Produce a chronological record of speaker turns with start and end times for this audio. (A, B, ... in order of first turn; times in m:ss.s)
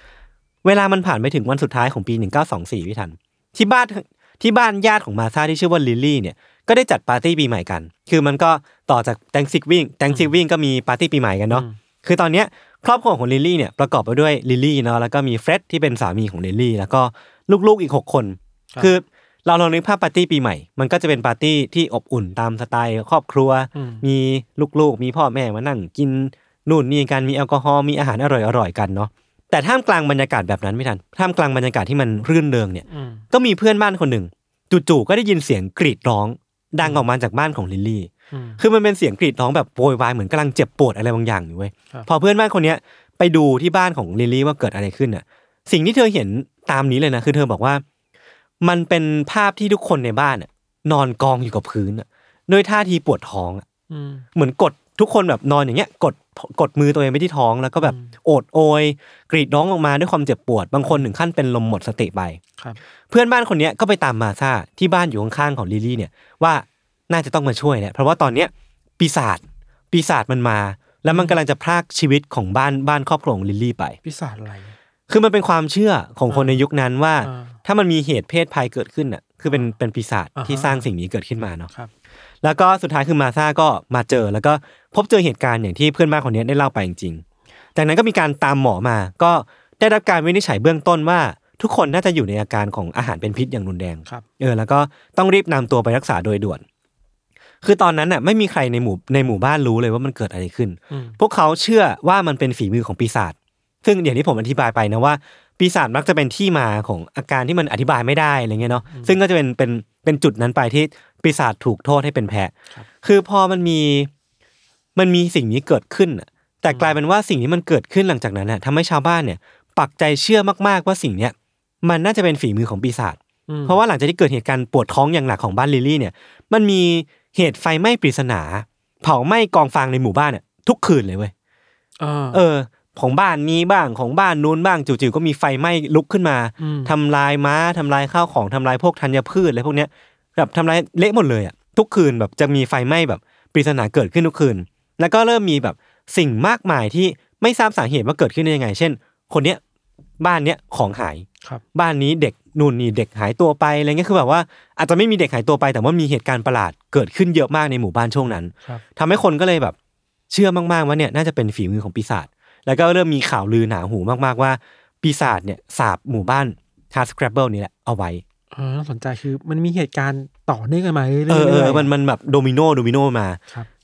0:00.6-0:47.8 A
0:11.5-0:11.8 B
0:23.7-0:24.0 B
0:32.9-0:33.2 B
0:38.3-0:38.6 B
0:48.6-0:53.6 A
0:53.9-0:54.2 B
0:54.3-1:02.4 A
0:57.8-0:58.1 B
1:03.1-1:14.0 A
1:11.1-1:11.4 B
1:14.0-1:14.7 B
1:15.1-1:21.7 A
1:16.3-1:16.6 B
1:17.2-1:17.6 B
1:19.5-1:19.7 B
1:20.4-1:20.8 B
1:22.4-1:27.2 A
1:27.8-1:36.6 A
1:37.6-1:54.1 A
1:40.9-1:41.2 B
1:48.7-1:49.2 B
1:54.9-2:11.3 A
1:56.7-1:57.0 B
2:03.5-2:03.8 B
2:12.0-2:12.4 B
2:12.3-2:29.6 A
2:16.6-2:16.9 B
2:30.2-2:39.7 A
2:40.3-2:48.2 A
2:48.5-2:51.9 B
2:51.3-2:53.4 A